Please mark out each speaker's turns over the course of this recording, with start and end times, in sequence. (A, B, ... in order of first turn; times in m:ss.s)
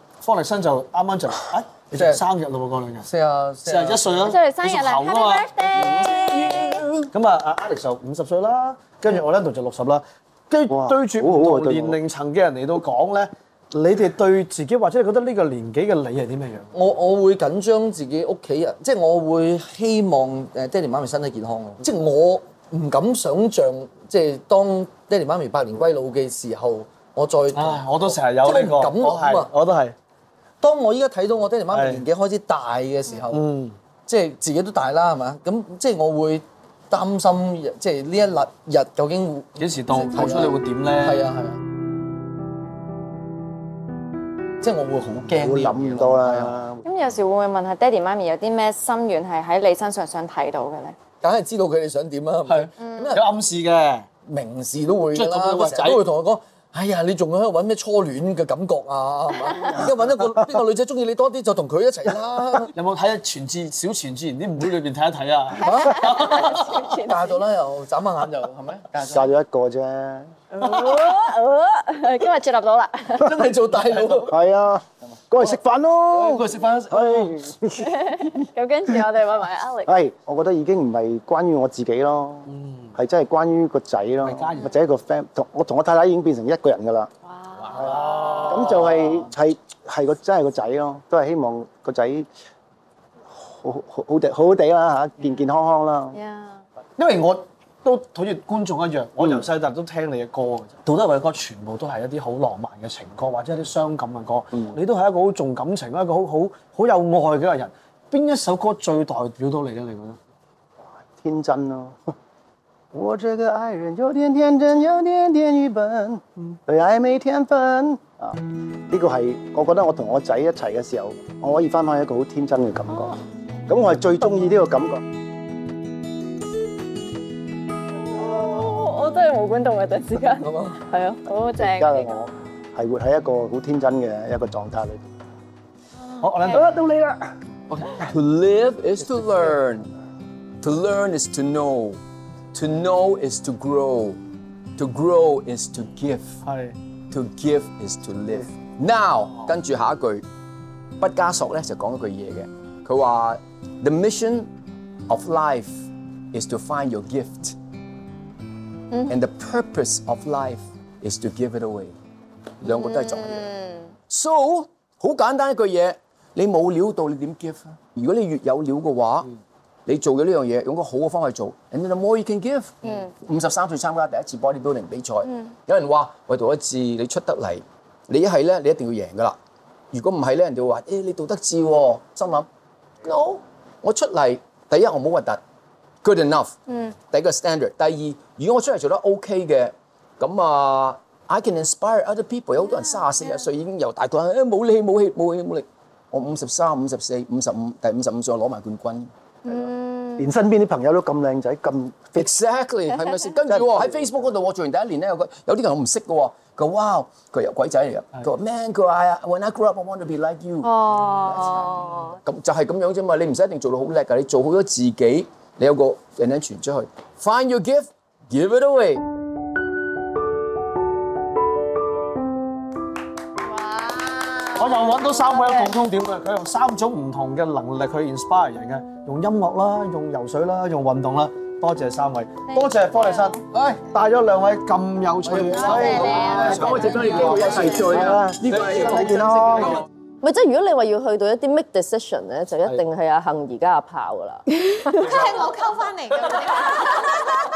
0:00.2-0:03.1 A
0:01.9-0:02.2 B
0:03.0-0:04.3 B
0:03.6-0:05.5 A
0:04.3-0:06.8 C
0:05.8-0:06.1 D
0:06.0-0:07.1 E
0:07.1-0:16.7 A
0:10.7-0:12.0 D
0:16.7-0:29.5 B
0:27.5-0:29.9 A
0:30.6-0:33.5 B
0:31.7-0:32.0 A
0:33.3-0:33.8 A
0:34.1-0:41.6 B
0:39.6-0:41.2 A
0:44.6-0:46.6 B
0:45.4-0:46.8 D
0:46.8-0:51.0 C
0:51.2-0:53.2 B
0:52.5-0:54.1 A
0:52.8-0:53.2 C
0:54.2-1:02.7 B
0:55.1-0:56.0 A
0:59.4-0:59.8 C
1:02.7-1:06.8 A
1:05.6-1:09.3 B
1:05.6-1:07.4 C
1:09.1-1:10.3 D
1:10.5-1:13.4 C
1:13.1-1:14.4 B
1:14.3-1:18.2 D
1:16.1-1:17.4 B
1:17.8-1:19.9 C
1:19.9-1:27.1 D
1:22.4-1:23.0 A
1:24.2-1:24.7 A
1:27.2-1:28.8 C
1:27.6-1:27.9 E
1:27.7-1:32.3 D
1:27.8-1:29.3 A
1:33.3-1:36.2 D
1:36.1-1:36.6 C
1:37.0-1:50.2 A
1:39.2-1:39.5 D
1:51.1-1:52.1 D
1:52.9-2:05.0 D
2:07.9-2:12.2 C
2:10.4-2:10.8 B
2:11.6-2:15.1 D
2:16.2-2:16.6 C
2:16.2-2:16.7 A
2:16.5-2:17.3 D
2:17.7-2:19.9 E
2:20.6-2:22.0 E
2:22.5-2:24.2 E
2:24.8-2:26.4 E
2:26.4-2:26.8 A
2:27.1-2:30.2 E
2:31.0-2:34.5 E
2:35.1-2:37.6 E
2:39.1-2:41.9 E
2:42.6-2:43.5 E
2:42.6-2:43.8 C
2:44.1-2:49.3 E
2:49.8-2:59.4 E
2:59.9-3:02.5 E
3:03.0-3:05.4 E
3:06.0-3:19.1 E
3:06.7-3:06.9 C
3:19.4-3:20.2 C
3:20.2-3:22.3 D
3:22.1-3:30.8 E
3:23.4-3:24.4 D
3:30.8-3:32.1 C
3:30.9-3:31.6 F
3:32.2-3:39.0 E
3:43.4-3:45.7 C
3:44.6-3:57.6 A
3:52.5-3:53.4 C
3:53.5-3:53.8 B
3:55.2-3:55.8 B
3:55.8-3:56.2 C
3:56.0-3:58.2 G
3:56.2-3:59.8 E
3:57.8-3:59.8 D
3:58.4-3:59.8 A
4:00.2-4:05.1 G
4:05.0-4:07.0 F